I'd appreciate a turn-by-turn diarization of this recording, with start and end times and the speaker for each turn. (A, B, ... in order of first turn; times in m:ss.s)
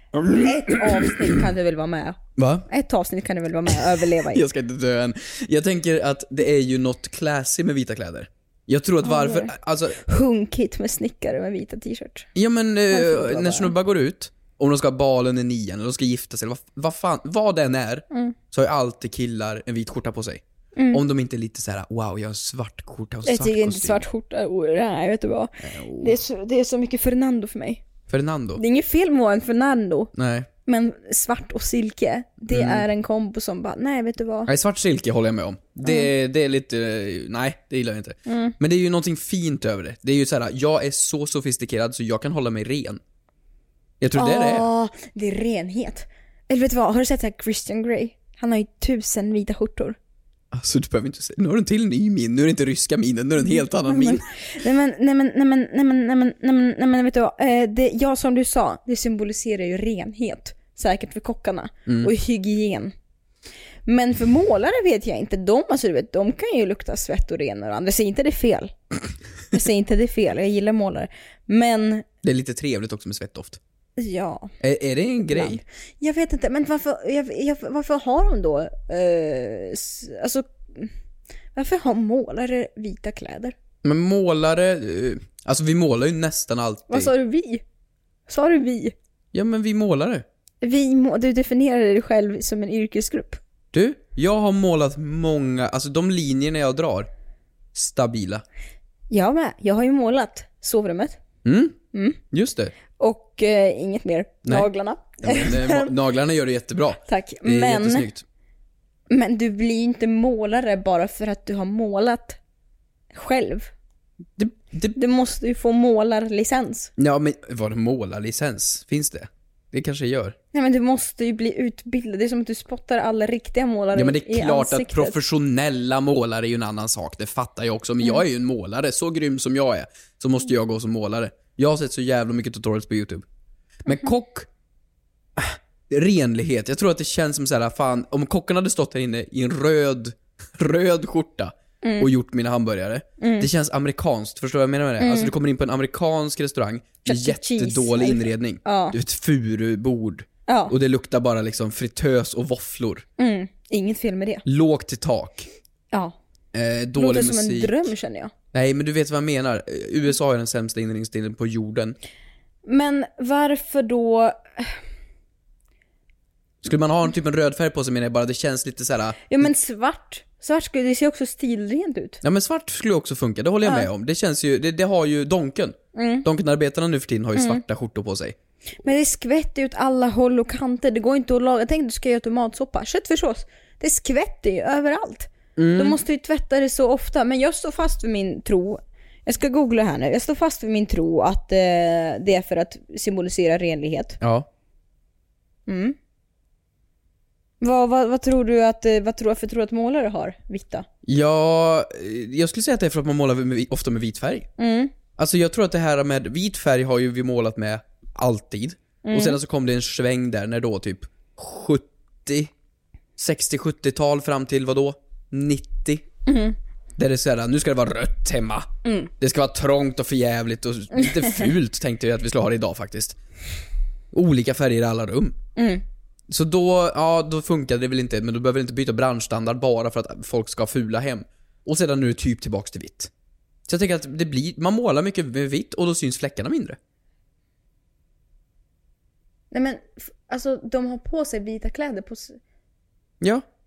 0:00.1-0:01.2 A
0:00.3-0:04.4 B
0:02.4-0:02.7 A
0:04.2-0:10.0 A
0:09.0-0:12.3 B
0:12.3-0:24.0 A
0:12.9-0:13.7 B
0:18.1-0:18.4 B
0:20.8-0:21.0 B
0:23.2-0:27.8 B
0:25.6-0:26.2 A
0:28.1-0:28.6 A
0:28.6-0:30.1 B
0:30.1-0:30.5 A
0:30.6-0:34.5 B
0:32.5-0:32.8 A
0:34.5-0:43.0 A
0:38.2-0:38.5 B
0:44.0-0:44.7 A
0:44.1-0:50.0 B
0:50.5-0:54.2 A
0:53.4-1:02.9 B
1:01.9-1:02.1 A
1:03.9-1:09.0 B
1:09.5-1:12.0 B
1:12.2-1:13.6 A
1:14.0-1:14.5 B
1:14.6-1:15.6 A
1:15.3-1:20.9 B
1:21.5-1:23.5 B
1:23.8-1:27.1 A
1:26.9-1:27.6 B
1:28.3-1:28.9 B
1:29.3-1:30.2 A
1:30.6-1:33.4 B
1:33.7-1:37.1 A
1:37.7-1:38.4 A
1:39.1-1:41.2 B
1:41.4-1:41.8 A
1:41.9-1:42.2 B
1:42.3-1:42.7 A
1:43.0-1:45.9 B
1:45.2-1:48.2 A
1:47.1-1:48.1 B
1:49.1-1:52.4 B
1:53.1-1:53.7 B
1:54.4-1:55.0 A
1:55.0-1:56.9 B
1:57.0-2:00.4 A
2:00.5-2:05.1 B
2:03.9-2:13.2 A
2:13.8-2:14.5 A
2:15.4-2:33.0 A
2:21.8-2:22.1 B
2:23.2-2:23.5 B
2:25.0-2:25.3 B
2:27.0-2:29.0 B
2:30.5-2:30.7 B
2:33.2-2:34.4 B
2:34.4-2:35.5 A
2:36.5-2:37.9 A
2:36.9-2:38.3 B
2:38.5-2:42.0 A
2:42.6-2:44.8 B
2:46.6-2:49.4 A
2:49.3-2:52.2 B
2:52.2-2:58.4 A
2:55.9-2:56.3 B
2:57.4-2:57.6 B
2:58.8-3:14.2 B
3:05.6-3:06.0 A
3:14.2-3:14.5 A
3:15.7-3:16.0 B
3:17.6-3:20.8 B
3:21.0-3:24.5 A
3:24.6-3:24.9 B
3:25.2-3:32.5 A
3:29.0-3:29.4 B
3:33.2-3:36.0 A
3:36.3-3:36.6 B
3:37.0-3:38.7 A
3:38.8-3:39.1 B
3:39.2-3:43.2 A
3:44.1-3:45.4 A
3:45.6-3:45.8 B
3:46.3-3:53.1 A
3:53.7-3:56.8 A
3:59.5-4:02.4 B